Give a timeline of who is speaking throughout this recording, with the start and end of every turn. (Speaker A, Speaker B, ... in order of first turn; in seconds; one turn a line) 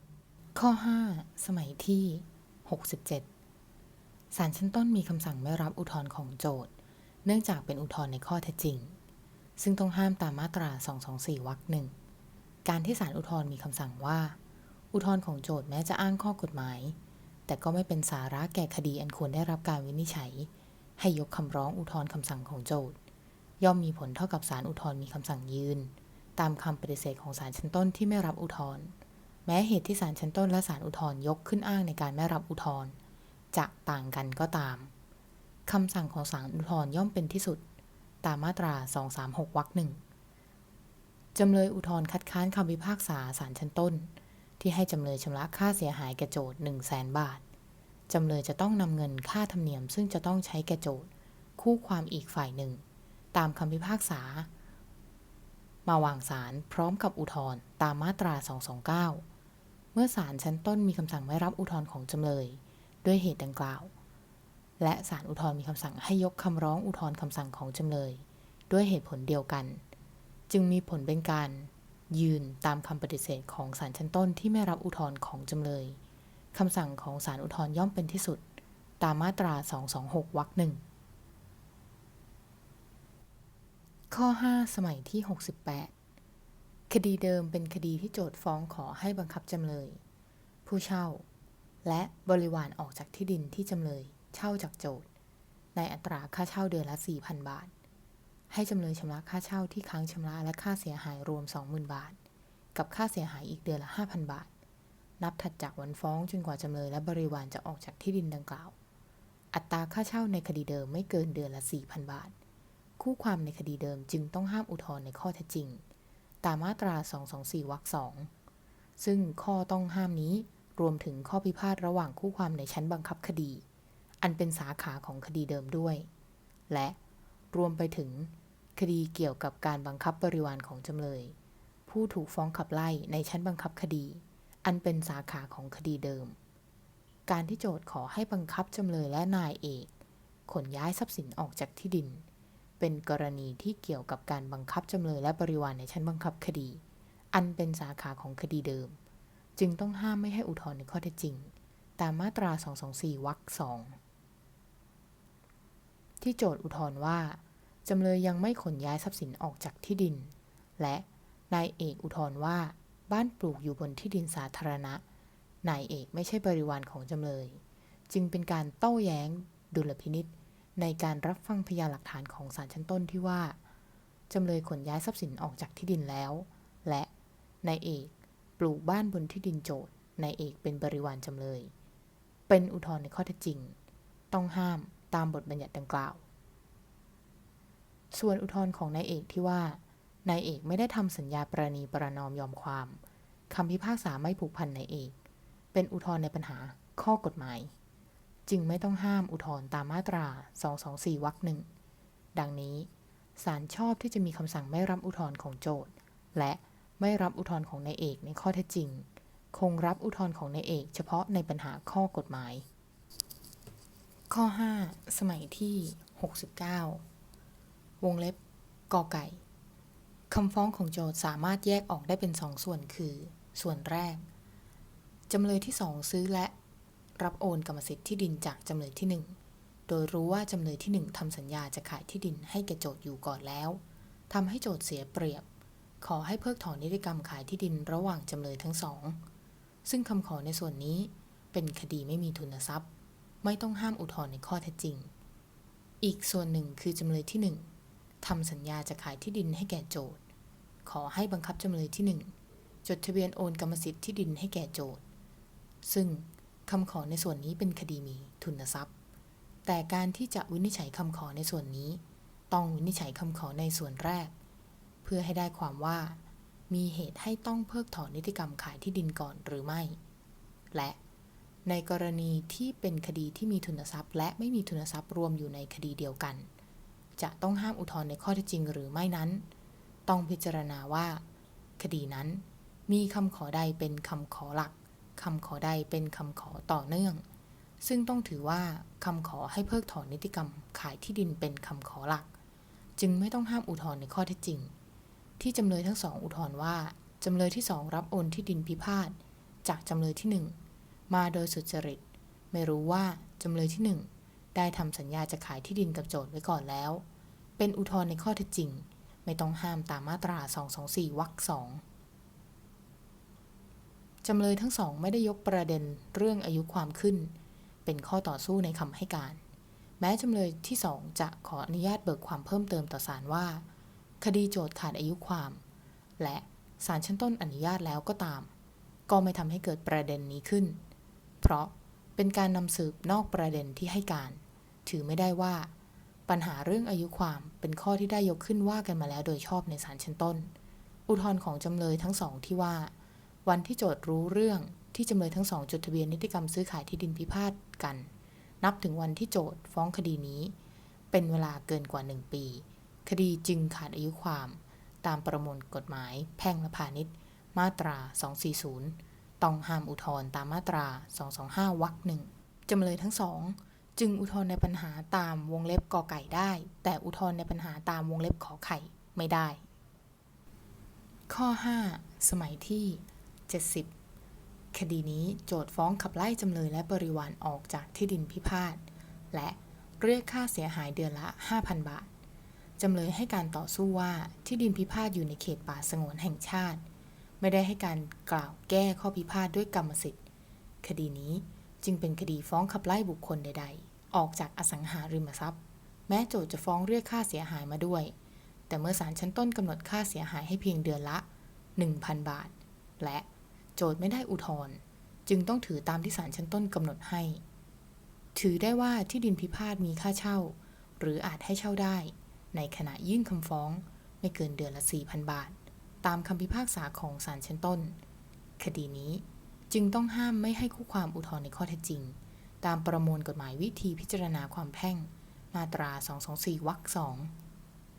Speaker A: 0.6-3.3
Speaker A: 4.3-6.7
Speaker A: 7.2-9.0
Speaker A: 9.6-11.9
Speaker A: 12.7-14.4
Speaker A: 14.9-17.0
Speaker A: 17.5-23.0
Speaker A: 23.6-33.0
Speaker A: 33.5-34.9
Speaker A: 35.7-37.6
Speaker A: 38.2-40.0
Speaker A: 41.4-47.4
Speaker A: 48.1-54.5
Speaker A: 55.9-59.2
Speaker A: 59.9-63.9
Speaker A: 64.8-69.8
Speaker A: 70.5-76.0
Speaker A: 76.5-78.4
Speaker A: 79.0-80.8
Speaker A: 84.1-85.9
Speaker A: 86.9-90.0
Speaker A: 90.7-91.2
Speaker A: 91.8-95.1
Speaker A: 95.8-97.7
Speaker A: 98.5-102.2
Speaker A: 102.8-104.5
Speaker A: 105.2-108.8
Speaker A: 109.5-112.3
Speaker A: 113.0-115.8
Speaker A: 116.4-118.3
Speaker A: 119.0-123.6
Speaker A: 124.2-126.1
Speaker A: 126.7-127.0
Speaker A: 127.5-131.4
Speaker A: 131.9-136.4
Speaker A: 137.3-139.9
Speaker A: 140.5-142.2
Speaker A: 142.8-149.0
Speaker A: 149.6-154.0
Speaker A: 156.2-165.0
Speaker A: 165.6-173.6
Speaker A: 174.3-177.1
Speaker A: 177.6-181.7
Speaker A: 182.5-183.8
Speaker A: 184.3-186.2
Speaker A: 188.1-195.2
Speaker A: 195.7-197.7
Speaker A: 198.5-201.7
Speaker A: 202.3-212.7
Speaker A: 214.3-217.0
Speaker A: 218.0-218.4
Speaker A: 218.9-219.4
Speaker A: 220.3-224.3
Speaker A: 225.3-226.5
Speaker A: 227.2-229.4
Speaker A: 229.9-235.4
Speaker A: 236.0-239.2
Speaker A: 239.8-242.9
Speaker A: 243.4-245.1
Speaker A: 246.0-247.7
Speaker A: 248.2-250.2
Speaker A: 250.9-252.3
Speaker A: 252.8-255.0
Speaker A: 255.8-258.9
Speaker A: 259.6-264.3
Speaker A: 265.0-270.0
Speaker A: 270.7-271.0
Speaker A: 271.7-276.5
Speaker A: 277.2-279.5
Speaker A: 280.1-281.2
Speaker A: 281.8-287.3
Speaker A: 287.8-292.3
Speaker A: 293.0-294.7
Speaker A: 295.4-300.6
Speaker A: 301.1-307.1
Speaker A: 307.6-311.8
Speaker A: 314.2-319.4
Speaker A: 320.0-323.6
Speaker A: 324.2-325.6
Speaker A: 326.2-328.5
Speaker A: 329.1-330.8
Speaker A: 331.4-335.7
Speaker A: 336.3-340.5
Speaker A: 341.1-342.9
Speaker A: 343.4-348.1
Speaker A: 348.6-350.6
Speaker A: 351.1-369.6
Speaker A: 371.3-373.9
Speaker A: 374.7-382.1
Speaker A: 382.8-386.8
Speaker A: 387.4-390.2
Speaker A: 390.8-398.1
Speaker A: 398.7-401.3
Speaker A: 401.8-407.4
Speaker A: 408.4-418.0
Speaker A: 418.6-427.3